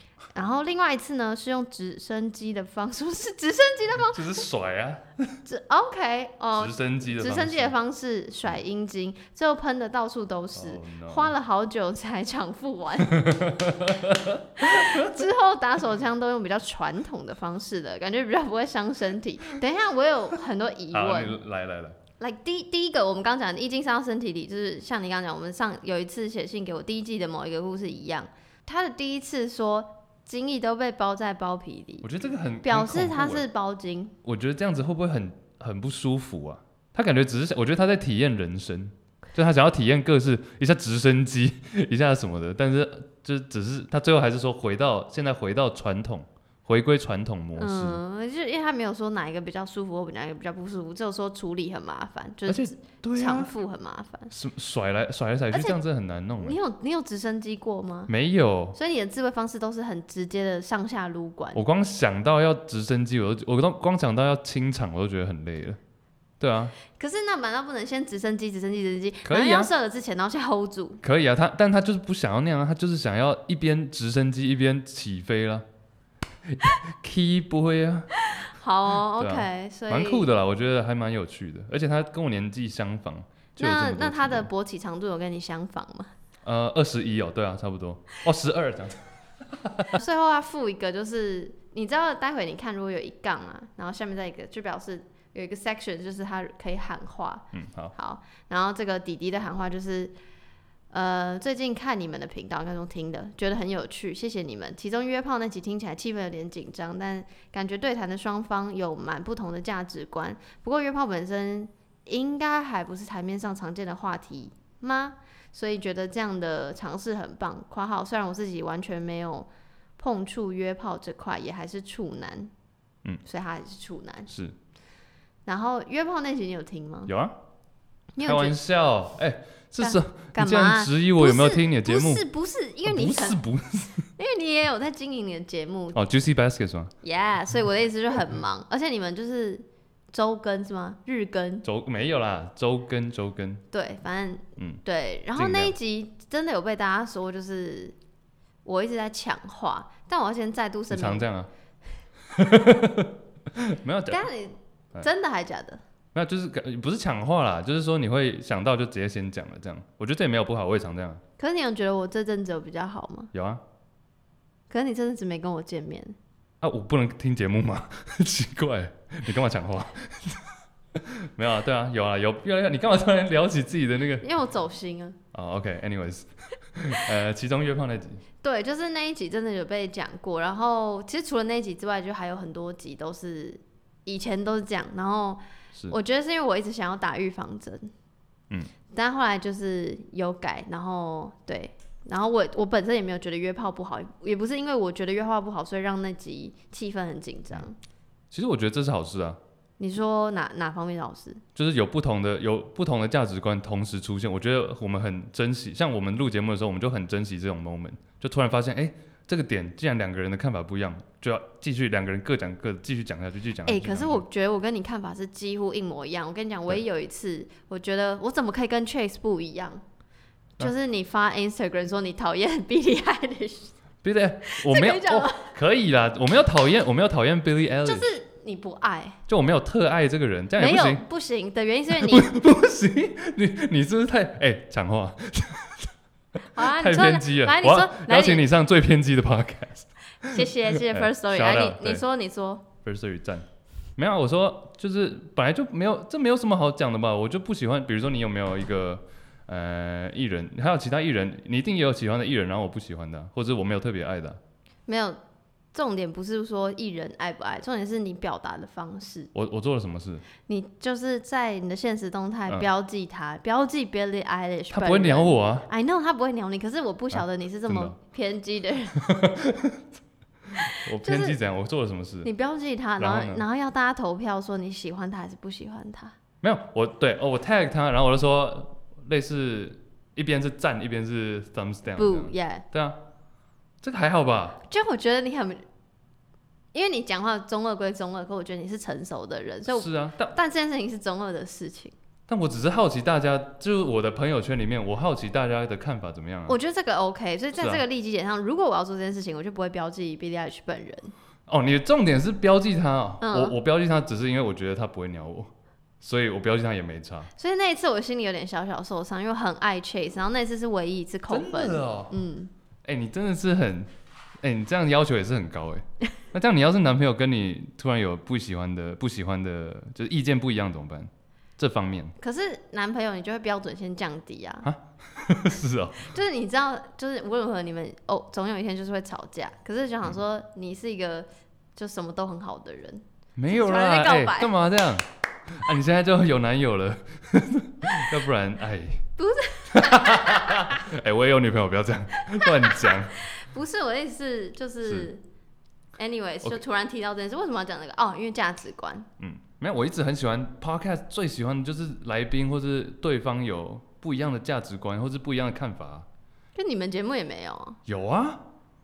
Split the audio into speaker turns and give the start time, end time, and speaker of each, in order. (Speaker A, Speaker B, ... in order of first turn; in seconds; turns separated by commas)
Speaker A: 0.3-4.3, Speaker B: 4.1-5.3, Speaker A: 5.5-13.2, Speaker B: 6.6-7.8, Speaker B: 10.6-11.3, Speaker B: 13.1-15.1, Speaker A: 14.6-21.4, Speaker B: 20.9-22.0, Speaker A: 22.2-32.1, Speaker B: 32.0-33.5, Speaker A: 32.6-34.1, Speaker B: 34.2-48.0, Speaker A: 47.6-54.3, Speaker B: 52.5-53.5, Speaker B: 54.3-56.6, Speaker A: 55.5-55.8, Speaker A: 56.4-58.1, Speaker B: 58.1-58.8, Speaker A: 58.8-61.6, Speaker B: 61.5-65.8, Speaker B: 66.4-66.8, Speaker A: 67.0-71.0, Speaker B: 69.3-69.7, Speaker B: 71.0-75.7, Speaker B: 76.5-78.4, Speaker A: 78.2-80.3, Speaker B: 79.2-84.5, Speaker A: 83.6-86.1, Speaker B: 86.4-89.0, Speaker B: 89.5-90.0, Speaker A: 89.9-100.2, Speaker B: 97.5-97.9, Speaker A: 100.9-122.5, Speaker A: 123.3-124.3, Speaker B: 124.3-124.5, Speaker A: 125.5-127.1, Speaker B: 127.1-127.4, Speaker A: 128.2-128.6, Speaker B: 128.2-132.3, Speaker A: 129.8-133.5, Speaker B: 132.8-134.1, Speaker A: 134.2-136.0, Speaker B: 135.9-136.9, Speaker A: 137.0-141.7, Speaker B: 141.6-143.6, Speaker A: 143.7-147.9, Speaker B: 145.3-145.8, Speaker A: 148.7-151.3, Speaker B: 150.9-151.5, Speaker B: 152.3-154.3, Speaker A: 154.1-155.8, Speaker B: 156.1-161.2, Speaker A: 161.4-163.3, Speaker B: 163.3-163.6, Speaker A: 164.7-166.2, Speaker B: 166.6-170.4, Speaker B: 171.0-174.3, Speaker A: 174.2-175.2, Speaker B: 175.3-178.2, Speaker A: 178.4-187.9, Speaker A: 188.9-197.8, Speaker B: 198.3-199.4, Speaker A: 199.8-201.4, Speaker B: 201.6-214.2, Speaker A: 213.7-219.8, Speaker A: 220.6-223.7, Speaker B: 224.0-228.1, Speaker A: 224.5-225.5, Speaker A: 227.8-229.2, Speaker B: 229.3-231.0, Speaker A: 230.6-232.4, Speaker B: 231.9-235.9, Speaker A: 236.5-238.5, Speaker B: 236.5-242.1, Speaker A: 240.2-242.7, Speaker B: 242.8-243.5, Speaker B: 244.0-254.4, Speaker A: 254.9-255.2, Speaker A: 255.7-259.3, Speaker B: 259.3-260.3, Speaker A: 260.5-269.1, Speaker B: 264.7-265.7, Speaker B: 267.1-268.0, Speaker B: 269.1-269.8, Speaker B: 270.6-272.3, Speaker A: 271.0-271.4, Speaker A: 272.2-276.2, Speaker B: 273.0-273.4, Speaker B: 276.4-283.0, Speaker A: 282.0-282.7, Speaker B: 283.8-284.6, Speaker A: 284.6-285.6, Speaker A: 286.7-291.9, Speaker B: 289.7-290.4, Speaker B: 292.3-296.6, Speaker A: 296.5-301.1, Speaker B: 297.6-297.8, Speaker B: 301.5-307.3, Speaker A: 303.2-303.6, Speaker A: 307.4-312.5, Speaker B: 311.3-312.2, Speaker B: 312.9-313.9, Speaker B: 314.4-322.1, Speaker A: 322.2-324.7, Speaker B: 324.6-326.1, Speaker A: 326.0-334.5, Speaker B: 333.4-339.1, Speaker A: 339.2-340.7, Speaker B: 339.7-343.3, Speaker A: 342.3-345.2, Speaker B: 344.8-345.1, Speaker A: 346.0-349.1, Speaker B: 349.2-356.1, Speaker A: 356.6-357.8, Speaker B: 357.9-358.4